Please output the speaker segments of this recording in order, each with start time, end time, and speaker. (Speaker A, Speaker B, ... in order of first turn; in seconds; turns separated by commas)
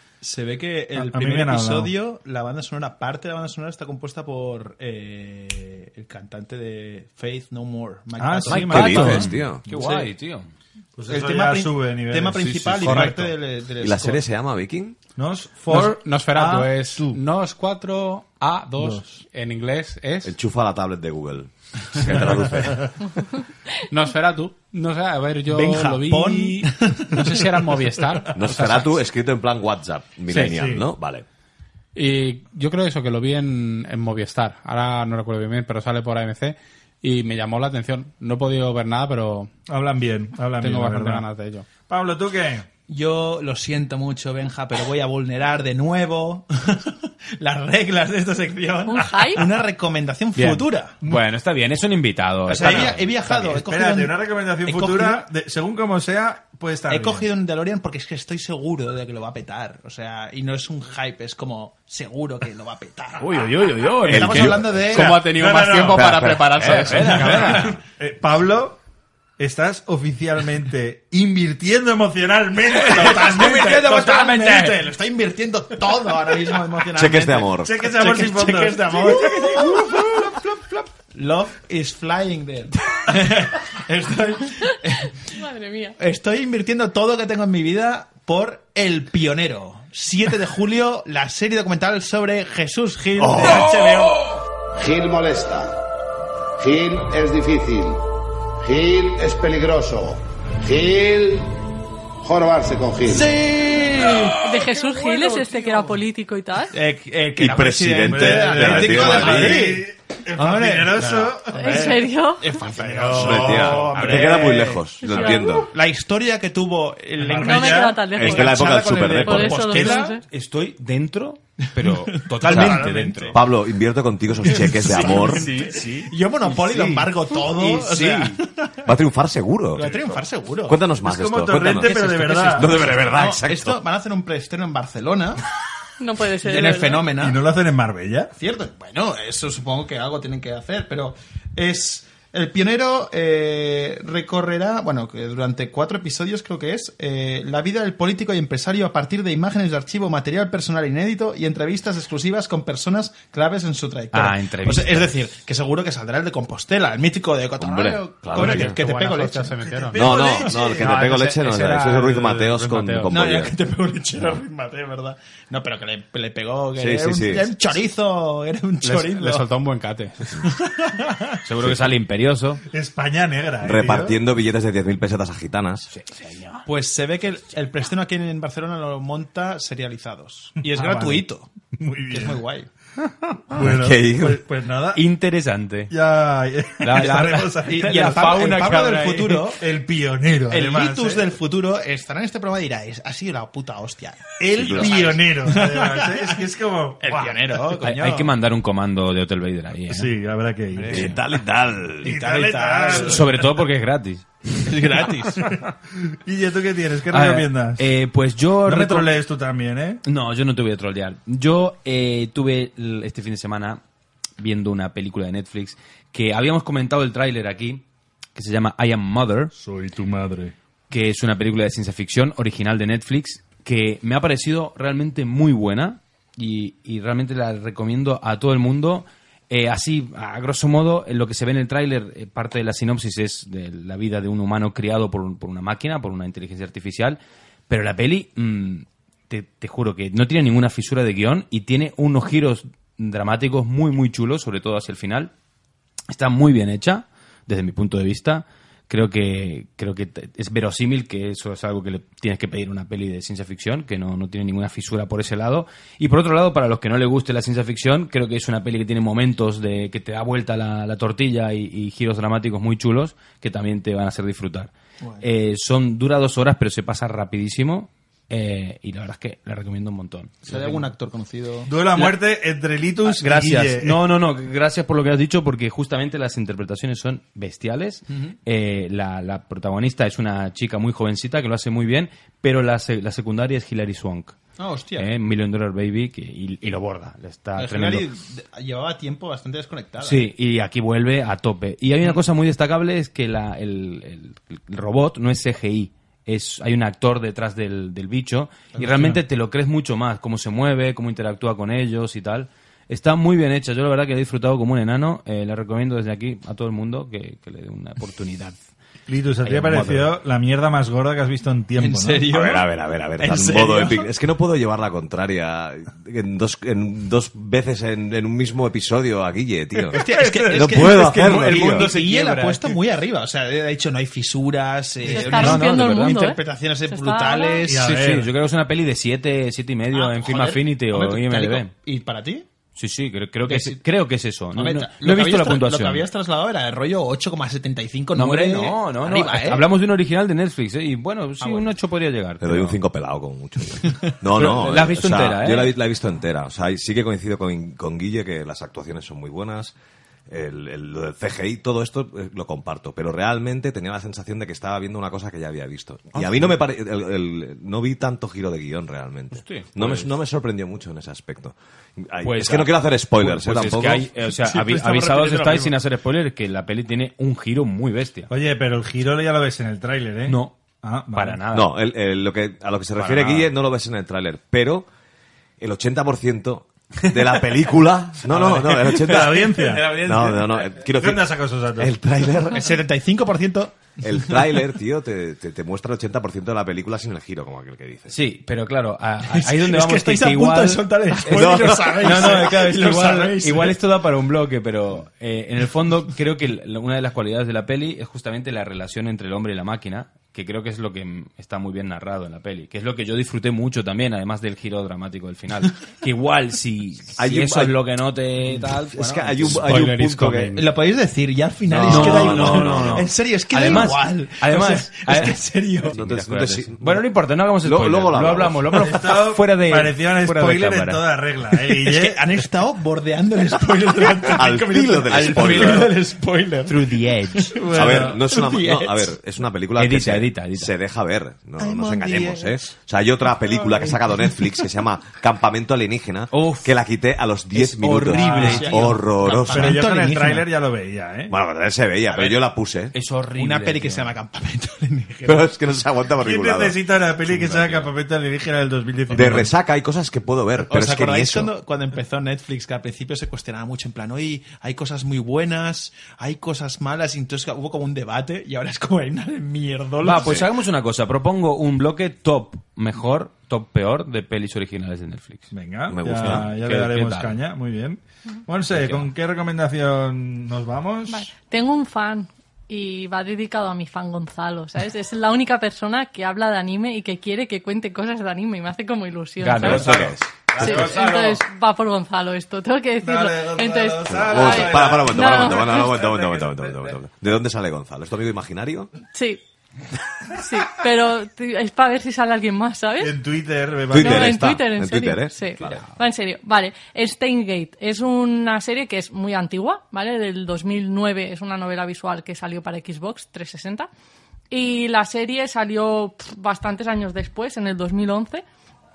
Speaker A: 0.2-10.1, Speaker B: 1.0-1.9, Speaker B: 8.2-9.3, Speaker C: 8.5-9.6, Speaker D: 8.5-10.5, Speaker B: 10.9-13.3, Speaker A: 11.1-14.2, Speaker C: 13.8-14.9, Speaker B: 15.2-17.2, Speaker E: 15.7-20.3, Speaker B: 18.8-19.1, Speaker C: 20.2-22.9, Speaker B: 22.2-22.7, Speaker E: 23.9-28.9, Speaker A: 25.5-27.5, Speaker C: 28.3-31.2, Speaker B: 30.4-30.9, Speaker E: 31.9-39.5, Speaker B: 39.7-41.2, Speaker E: 40.6-41.6, Speaker B: 41.9-42.7, Speaker A: 42.9-51.0, Speaker F: 48.9-49.5, Speaker D: 51.0-53.0, Speaker A: 52.5-55.2, Speaker B: 52.5-57.3, Speaker A: 56.9-65.2, Speaker D: 63.2-64.6, Speaker C: 64.0-65.0, Speaker E: 64.9-67.7, Speaker B: 64.9-66.3, Speaker C: 65.9-66.8, Speaker D: 66.6-67.8, Speaker B: 66.9-68.8, Speaker A: 67.3-67.7, Speaker B: 69.4-73.9, Speaker A: 72.8-85.2, Speaker D: 73.0-74.8, Speaker C: 76.9-77.7, Speaker B: 77.6-79.9, Speaker F: 85.3-85.9, Speaker A: 86.0-94.2, Speaker C: 93.2-93.7, Speaker G: 94.8-95.7, Speaker G: 96.6-98.0, Speaker G: 98.6-101.5, Speaker G: 102.2-103.4, Speaker A: 103.0-104.4, Speaker F: 104.4-106.8, Speaker A: 106.7-120.1, Speaker C: 107.3-109.8, Speaker B: 108.0-112.0, Speaker F: 111.5-112.6, Speaker B: 112.6-114.4, Speaker C: 113.1-115.7, Speaker F: 115.0-115.7, Speaker B: 117.2-118.0, Speaker F: 117.4-120.2, Speaker C: 118.2-119.9, Speaker D: 119.7-123.4, Speaker A: 121.8-123.2, Speaker B: 122.4-123.3, Speaker C: 122.5-125.5, Speaker A: 124.4-128.7, Speaker D: 124.5-128.4, Speaker C: 128.8-130.0, Speaker A: 129.7-130.8, Speaker C: 130.6-132.0, Speaker B: 131.0-132.9, Speaker D: 131.8-132.5, Speaker A: 131.9-135.4, Speaker C: 132.5-133.8, Speaker F: 136.0-137.1, Speaker A: 136.4-137.4, Speaker B: 137.1-138.3, Speaker A: 138.4-159.6, Speaker D: 154.1-155.1, Speaker C: 157.6-158.8, Speaker E: 158.3-163.1, Speaker B: 159.6-160.9, Speaker C: 159.9-163.5, Speaker A: 160.1-160.5, Speaker A: 163.1-169.5, Speaker C: 166.8-167.5, Speaker E: 168.8-170.4, Speaker A: 170.5-171.1, Speaker D: 171.4-172.6, Speaker B: 172.7-174.2, Speaker C: 173.6-175.9, Speaker D: 175.9-176.6, Speaker A: 176.7-181.5, Speaker B: 180.6-181.2, Speaker B: 181.8-182.4, Speaker A: 182.1-182.7, Speaker B: 183.5-185.0, Speaker C: 183.6-184.4, Speaker D: 184.9-185.9, Speaker B: 185.9-188.7, Speaker D: 186.8-189.5, Speaker A: 186.9-189.6, Speaker B: 189.6-191.3, Speaker A: 190.5-196.4, Speaker B: 194.4-197.6, Speaker C: 194.6-194.9, Speaker A: 197.0-198.3, Speaker D: 197.8-200.1, Speaker B: 199.9-201.1, Speaker D: 200.8-201.1, Speaker C: 200.9-202.1, Speaker A: 202.0-203.3, Speaker B: 202.0-203.3, Speaker D: 202.9-205.0, Speaker A: 204.6-205.4, Speaker B: 205.4-207.8, Speaker D: 207.1-209.1, Speaker B: 208.6-210.0, Speaker D: 210.0-213.8, Speaker D: 214.4-217.8, Speaker D: 218.3-219.5, Speaker B: 219.5-220.5, Speaker D: 220.9-245.3, Speaker D: 246.1-270.9, Speaker A: 270.4-271.7, Speaker B: 271.7-274.0, Speaker D: 273.0-284.4, Speaker A: 278.1-278.3, Speaker A: 284.6-285.1, Speaker D: 285.0-288.1, Speaker A: 287.6-290.3, Speaker D: 290.0-308.6, Speaker A: 298.7-299.1, Speaker B: 298.8-299.2, Speaker B: 309.1-312.3, Speaker D: 309.4-310.1, Speaker A: 311.8-312.6, Speaker C: 312.3-320.0, Speaker A: 313.2-314.0, Speaker A: 319.9-327.9, Speaker B: 319.9-321.0, Speaker C: 320.5-321.9, Speaker D: 321.2-322.7, Speaker B: 325.1-325.5, Speaker D: 325.1-326.3, Speaker F: 325.1-327.6, Speaker B: 327.6-328.3, Speaker D: 327.7-331.7, Speaker A: 329.9-332.4, Speaker D: 332.8-336.1, Speaker A: 333.4-333.8, Speaker A: 334.5-339.6, Speaker D: 338.1-342.8, Speaker A: 341.4-341.7, Speaker C: 342.4-349.8, Speaker D: 344.3-345.7, Speaker C: 350.3-364.1, Speaker D: 356.1-356.6, Speaker D: 359.3-360.1, Speaker D: 362.2-368.3, Speaker A: 364.4-365.7, Speaker B: 368.3-371.4, Speaker D: 370.3-370.6, Speaker D: 371.1-371.7, Speaker C: 371.5-374.9, Speaker D: 373.0-373.5, Speaker C: 375.6-382.7, Speaker B: 378.3-380.0, Speaker A: 380.0-380.3, Speaker B: 381.0-381.9, Speaker A: 382.5-383.8, Speaker C: 384.0-388.1, Speaker D: 388.1-392.5, Speaker A: 389.3-393.8, Speaker C: 391.3-392.3, Speaker B: 392.0-393.4, Speaker D: 393.4-409.7, Speaker C: 407.2-407.8, Speaker C: 408.9-410.5, Speaker E: 409.6-410.6, Speaker A: 410.5-415.9, Speaker C: 411.7-413.1, Speaker D: 411.9-421.0, Speaker C: 415.9-417.0, Speaker C: 417.6-418.6, Speaker B: 418.7-422.4, Speaker A: 421.8-429.1, Speaker C: 424.3-425.9, Speaker D: 425.1-425.8, Speaker D: 426.6-427.6, Speaker B: 427.6-428.2, Speaker C: 427.7-439.8, Speaker D: 429.8-430.7, Speaker A: 431.6-432.6, Speaker A: 433.6-434.0, Speaker D: 436.3-436.7, Speaker D: 437.6-438.9, Speaker A: 437.8-440.5, Speaker B: 439.5-441.3, Speaker C: 441.3-442.9, Speaker D: 442.9-444.1, Speaker A: 443.3-445.5, Speaker C: 445.2-446.8, Speaker B: 446.2-449.5, Speaker D: 447.3-447.9, Speaker C: 449.1-451.5, Speaker A: 450.6-460.4, Speaker D: 460.0-465.5, Speaker B: 465.5-471.3, Speaker C: 465.9-466.5, Speaker D: 466.1-467.4, Speaker D: 468.7-469.1, Speaker F: 471.1-479.9, Speaker D: 479.4-480.9, Speaker C: 479.6-480.2, Speaker B: 479.6-481.4, Speaker F: 480.6-485.9, Speaker B: 483.0-486.8, Speaker C: 484.1-488.9, Speaker F: 489.1-489.4, Speaker F: 490.3-493.2, Speaker B: 493.0-494.5, Speaker C: 493.9-495.8, Speaker F: 493.9-503.9, Speaker F: 504.5-508.4